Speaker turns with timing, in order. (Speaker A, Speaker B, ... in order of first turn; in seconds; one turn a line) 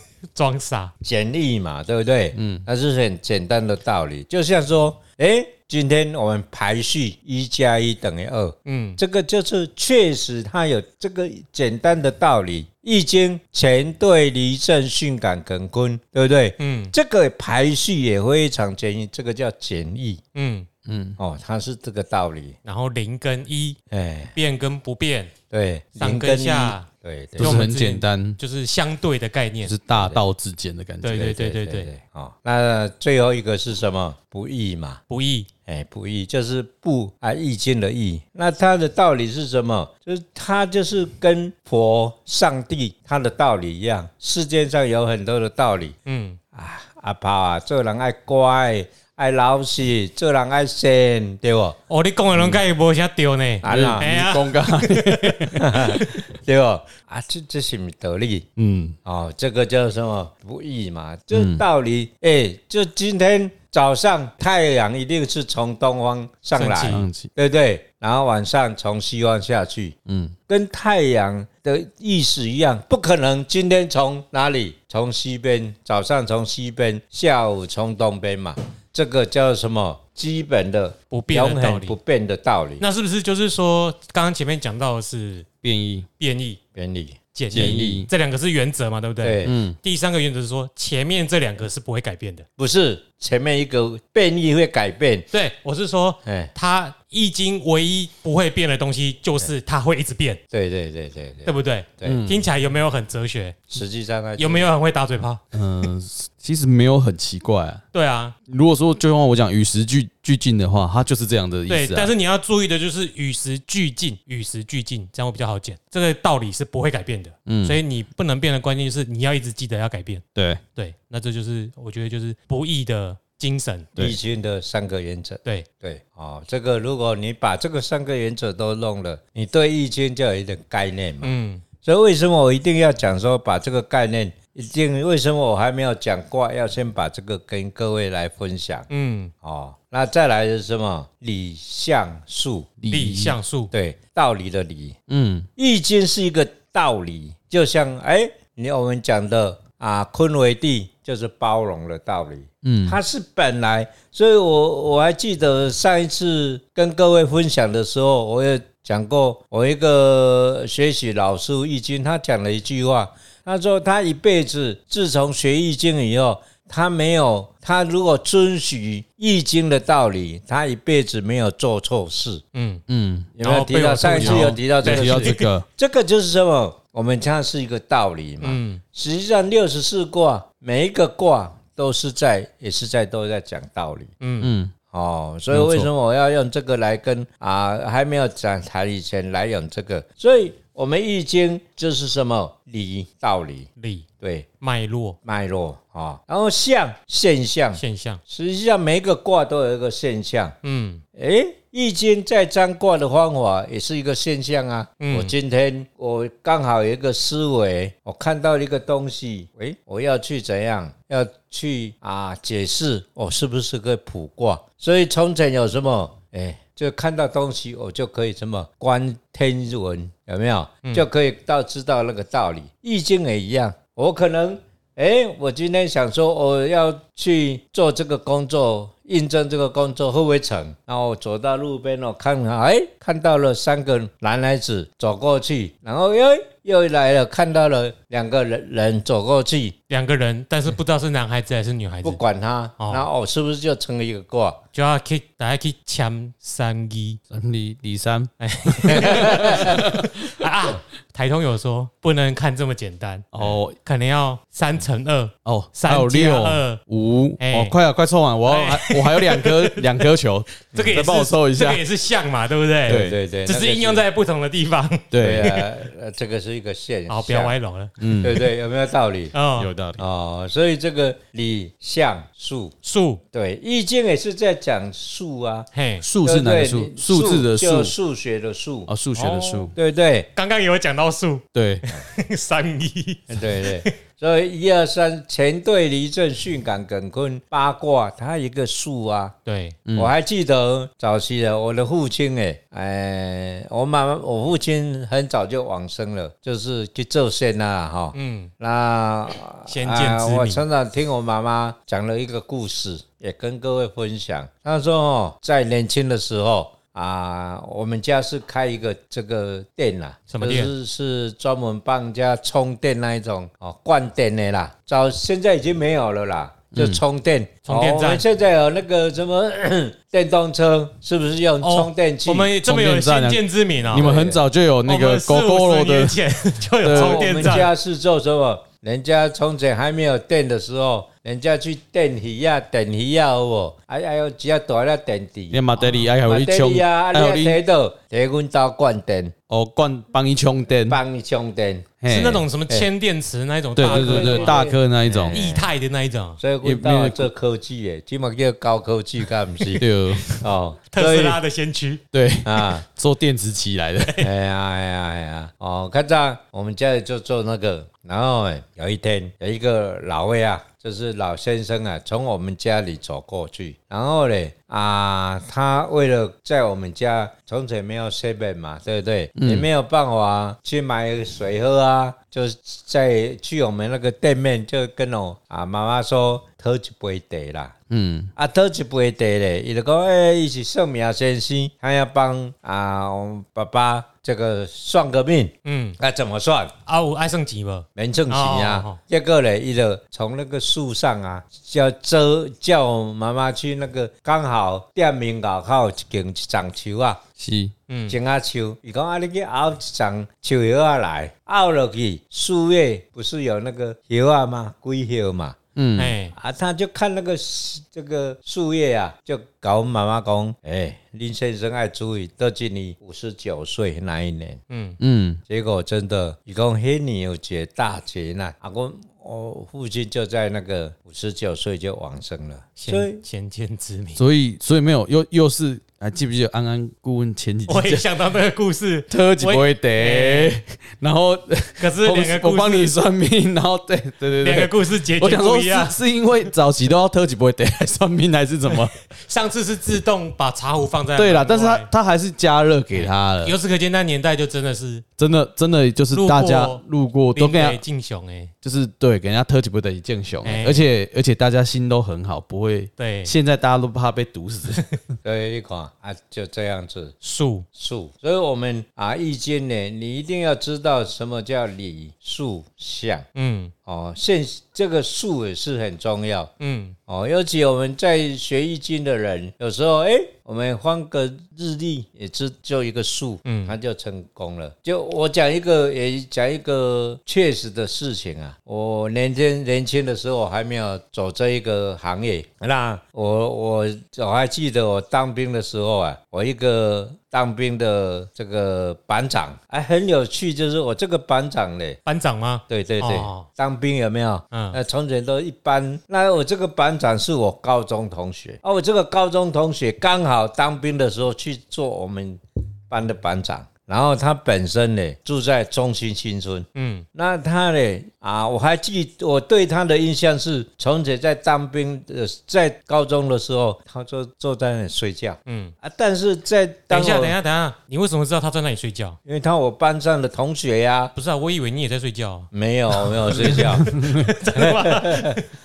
Speaker A: 0.3-0.9
Speaker B: 1.0-20.2
Speaker C: 2.3-2.6
Speaker A: 8.6-9.0
Speaker A: 16.6-16.9
Speaker A: 20.3-20.7
Speaker C: 20.9-21.2
Speaker B: 21.2-22.6
Speaker A: 22.6-23.8
Speaker B: 23.9-24.3
Speaker A: 24.3-25.3
Speaker B: 25.5-27.6
Speaker A: 26.0-26.9
Speaker C: 27.4-28.4
Speaker A: 27.4-29.7
Speaker C: 29.6-31.3
Speaker B: 29.9-30.2
Speaker A: 31.0-31.9
Speaker B: 31.1-35.0
Speaker A: 35.1-35.5
Speaker B: 35.6-46.0
Speaker A: 46.0-46.4
Speaker B: 46.5-51.8
Speaker A: 51.9-55.5
Speaker B: 53.6-54.1
Speaker C: 53.6-56.2
Speaker B: 55.5-58.5
Speaker C: 58.6-59.0
Speaker B: 59.0-70.0
Speaker C: 61.3-61.6
Speaker A: 66.5-67.0
Speaker C: 66.8-67.3
Speaker C: 70.0-70.3
Speaker B: 70.5-82.8
Speaker A: 81.1-82.0
Speaker A: 82.8-85.5
Speaker C: 85.6-86.1
Speaker A: 86.2-86.6
Speaker B: 86.7-88.0
Speaker A: 87.3-92.5
Speaker C: 87.5-88.1
Speaker B: 89.2-89.6
Speaker C: 89.4-89.8
Speaker B: 92.6-95.2
Speaker A: 95.3-100.4
Speaker B: 96.2-96.5
Speaker B: 100.5-102.2
Speaker A: 101.5-103.7
Speaker C: 102.0-102.5
Speaker B: 103.7-104.7
Speaker A: 104.4-105.9
Speaker C: 105.5-107.8
Speaker A: 107.9-108.3
Speaker C: 108.5-112.1
Speaker A: 111.7-120.2
Speaker C: 117.5-117.8
Speaker C: 120.3-120.6
Speaker A: 120.7-123.9
Speaker B: 124.0-138.9
Speaker A: 131.2-131.6
Speaker A: 138.9-139.3
Speaker B: 139.4-142.8
Speaker C: 142.8-143.3
Speaker A: 142.9-143.7
Speaker B: 143.7-144.9
Speaker C: 145.1-145.5
Speaker B: 145.6-172.4
Speaker C: 152.6-153.0
Speaker A: 172.5-172.8
Speaker C: 172.9-173.3
Speaker B: 173.4-184.1
Speaker A: 173.4-175.5
Speaker C: 174.1-175.7
Speaker A: 178.4-178.8
Speaker A: 184.2-184.5
Speaker C: 184.4-184.7
Speaker B: 184.9-193.7
Speaker C: 185.5-185.9
Speaker A: 193.8-194.1
Speaker B: 194.2-194.5
Speaker A: 194.6-195.2
Speaker B: 195.2-200.6
Speaker A: 197.7-198.2
Speaker A: 200.6-201.0
Speaker B: 201.2-239.8
Speaker A: 205.0-205.3
Speaker A: 239.9-242.2
Speaker B: 242.0-244.6
Speaker A: 242.8-243.1
Speaker A: 244.7-247.2
Speaker C: 247.3-250.3
Speaker A: 248.4-256.8
Speaker B: 249.0-249.7
Speaker C: 253.3-253.8
Speaker C: 255.4-261.8
Speaker A: 257.4-257.8
Speaker A: 258.4-259.8
Speaker A: 260.7-265.6
Speaker C: 262.9-263.2
Speaker B: 262.9-264.0
Speaker C: 265.1-265.6
Speaker B: 265.2-267.5
Speaker A: 267.1-267.9
Speaker C: 268.0-268.4
Speaker B: 268.2-269.3
Speaker A: 269.3-269.7
Speaker C: 269.6-270.0
Speaker B: 270.0-272.7
Speaker A: 272.8-273.2
Speaker B: 273.3-275.7
Speaker A: 275.7-276.0
Speaker C: 276.0-277.9
Speaker B: 276.2-278.9
Speaker C: 278.9-279.7
Speaker A: 279.1-279.7
Speaker B: 279.7-280.3
Speaker A: 280.3-283.9
Speaker C: 281.5-281.8
Speaker B: 283.3-289.4
Speaker A: 289.4-289.8
Speaker C: 289.9-290.1
Speaker B: 289.9-322.5
Speaker A: 298.1-298.5
Speaker A: 299.7-300.6
Speaker A: 310.3-310.7
Speaker C: 316.7-317.0
Speaker A: 317.6-318.2
Speaker A: 321.6-324.1
Speaker C: 322.6-326.2
Speaker B: 323.9-324.4
Speaker A: 324.8-327.7
Speaker C: 326.8-327.6
Speaker B: 326.9-335.6
Speaker C: 335.5-337.6
Speaker A: 335.8-336.1
Speaker B: 336.2-339.3
Speaker C: 339.5-341.0
Speaker B: 340.9-341.9
Speaker C: 342.0-342.4
Speaker A: 342.1-344.7
Speaker C: 343.8-345.4
Speaker B: 343.8-345.7
Speaker A: 345.3-346.4
Speaker B: 346.4-351.4
Speaker C: 346.6-347.3
Speaker C: 349.8-350.4
Speaker A: 350.9-352.0
Speaker C: 352.1-354.3
Speaker B: 352.4-352.9
Speaker B: 354.2-377.7
Speaker C: 369.4-369.7
Speaker C: 377.9-378.3
Speaker B: 378.4-386.7
Speaker A: 385.6-386.0
Speaker A: 386.9-389.0
Speaker B: 387.9-397.2
Speaker C: 397.4-397.7
Speaker A: 397.9-398.2
Speaker B: 398.1-405.6
Speaker C: 405.8-406.1
Speaker A: 406.0-406.3
Speaker B: 406.3-414.6
Speaker A: 414.7-415.0
Speaker C: 415.0-415.4
Speaker B: 415.5-423.2
Speaker A: 422.8-424.2
Speaker C: 424.1-428.1
Speaker A: 427.7-430.5
Speaker C: 429.1-438.9
Speaker A: 431.8-432.9
Speaker A: 434.4-436.0
Speaker A: 438.7-441.9
Speaker C: 441.1-443.5
Speaker A: 442.9-445.0
Speaker C: 445.2-447.8
Speaker A: 446.1-446.8
Speaker A: 447.3-448.5
Speaker C: 448.6-454.8
Speaker A: 450.4-450.9
Speaker A: 453.0-453.3
Speaker B: 455.2-457.1
Speaker A: 457.2-457.6
Speaker B: 457.7-463.2
Speaker A: 463.3-463.7
Speaker B: 463.9-466.5
Speaker A: 466.6-467.0
Speaker B: 467.1-492.0
Speaker A: 473.4-473.7
Speaker A: 492.0-493.5
Speaker B: 492.7-517.4
Speaker A: 494.5-494.8
Speaker A: 506.7-507.1
Speaker A: 515.5-515.7
Speaker A: 516.9-519.2
Speaker B: 519.2-521.1
Speaker A: 521.1-525.5
Speaker B: 522.5-523.9
Speaker C: 523.9-524.3
Speaker B: 524.5-525.4